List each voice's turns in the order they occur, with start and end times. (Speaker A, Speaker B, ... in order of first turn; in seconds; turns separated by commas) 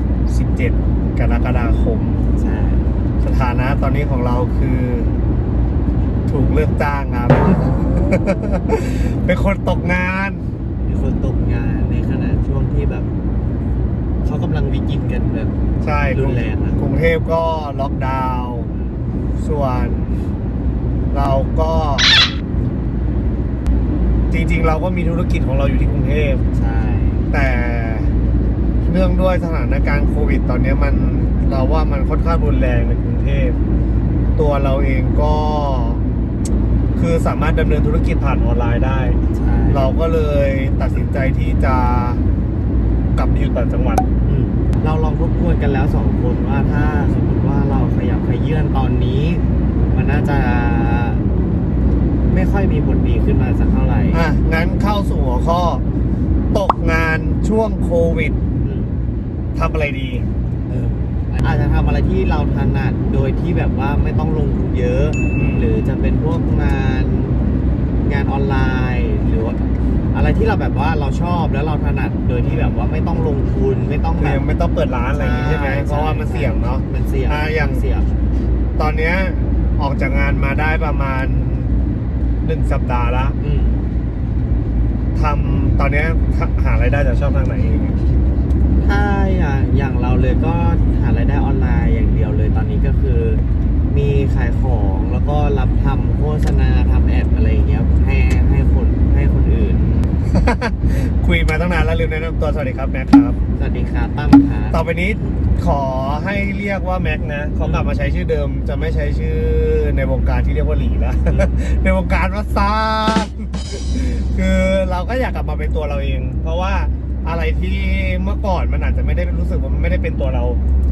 Speaker A: 0.3-2.2, Speaker B: 2.4-2.9, Speaker A: 3.2-5.1, Speaker A: 6.3-10.4, Speaker B: 10.8-13.1, Speaker B: 14.2-15.5, Speaker A: 15.8-18.7, Speaker B: 16.1-16.8, Speaker B: 18.7-19.0, Speaker A: 19.4-20.1, Speaker A: 21.1-22.1, Speaker A: 24.3-26.4, Speaker B: 26.5-27.3, Speaker A: 27.3-28.1, Speaker A: 28.8-33.6, Speaker A: 34.4-36.0, Speaker A: 36.9-39.2, Speaker B: 39.3-39.9, Speaker A: 39.7-42.2, Speaker A: 43.1-44.1, Speaker B: 44.2-51.2, Speaker B: 52.2-54.2, Speaker A: 54.1-55.8, Speaker A: 56.5-58.4, Speaker B: 58.6-59.0, Speaker A: 59.5-60.3, Speaker B: 60.7-67.4, Speaker A: 65.3-65.7, Speaker B: 68.0-74.4, Speaker A: 72.4-72.8, Speaker A: 74.2-77.8, Speaker B: 75.1-78.1, Speaker A: 78.8-81.7, Speaker A: 82.4-83.3, Speaker B: 83.4-83.8, Speaker A: 85.1-88.0, Speaker B: 88.8-100.0, Speaker A: 100.3-103.4, Speaker B: 103.6-105.3, Speaker A: 104.7-120.6, Speaker B: 107.6-107.9